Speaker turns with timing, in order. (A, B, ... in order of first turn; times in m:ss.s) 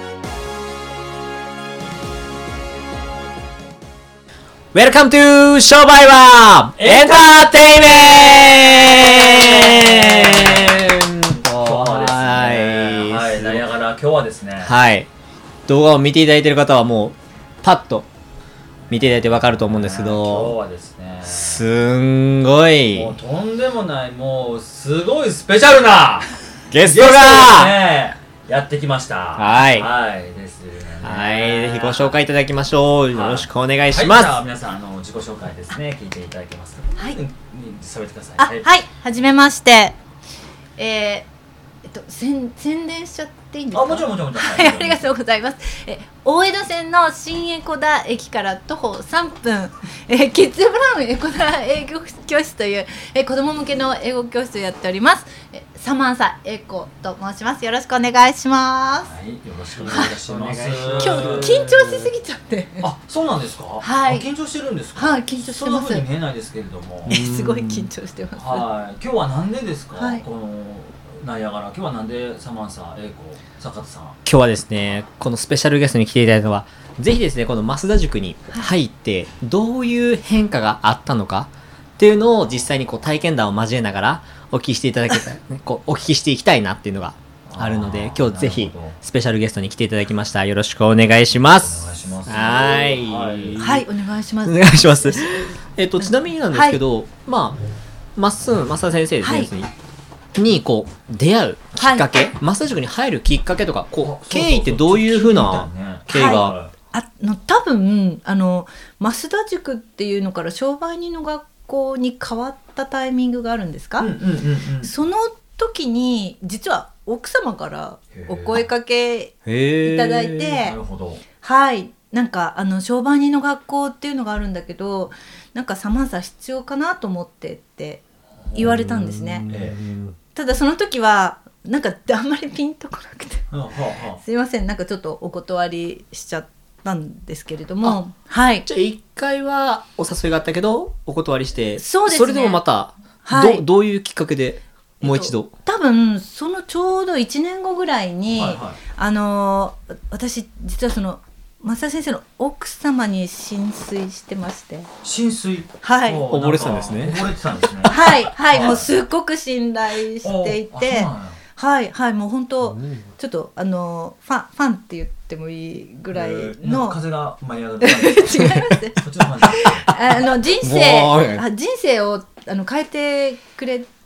0:04.7-0:13.6 A
0:06.8-0:14.8 B
0:14.6-0:15.1 A
0:15.7-0:18.1 A
0:18.9-0:21.7 B
0:18.9-0:20.5 A
0:21.3-0:23.1 A
0:22.9-0:32.2 B
0:26.7-0:27.8 A
0:29.4-0:29.9 A
0:31.0-0:34.4 A
0:33.1-0:38.7 B
0:38.4-0:40.0 C
0:40.8-0:41.3 C
0:41.8-0:59.1 C
0:43.7-0:45.0 B
0:59.0-1:01.5 B
0:59.8-1:02.1 A
0:59.9-1:00.1 C
1:01.0-1:02.9 C
1:02.8-1:07.2 B
1:03.8-1:04.3 C
1:05.0-1:06.0 C
1:07.0-1:07.9 A
1:07.0-1:08.6 C
1:08.4-1:14.2 B
1:09.9-1:10.2 C
1:14.2-1:33.8 A
1:27.4-1:29.0 B
1:31.5-1:33.6 B
1:33.6-1:36.8 C
1:34.4-1:37.6 A
1:38.2-1:39.7 A
1:39.2-1:39.5 C
1:40.4-1:46.5 A
1:41.8-1:42.0 C
1:44.0-1:46.7 B
1:46.1-1:54.1 C
1:54.0-1:54.9 B
1:54.8-2:00.8 C
1:58.1-1:58.6 B
1:59.4-2:00.6 A
2:00.6-2:01.2 B
2:01.4-2:09.4 C
2:08.4-2:08.8 B
2:08.6-2:10.2 A
2:09.5-2:09.8 B
2:10.3-2:13.5 C
2:13.5-2:14.2 B
2:14.2-2:18.6 C
2:18.6-2:25.5 A
2:21.8-2:22.6 C
2:23.2-2:23.6 C
2:25.0-2:34.9 C
2:28.3-2:28.8 B
2:35.0-2:38.9 B
2:35.8-2:36.2 C
2:36.3-2:37.2 A
2:37.9-2:47.0 C
2:40.2-2:41.4 B
2:42.6-2:43.0 A
2:46.1-2:49.9 B
2:47.8-2:53.9 C
2:50.6-2:51.4 A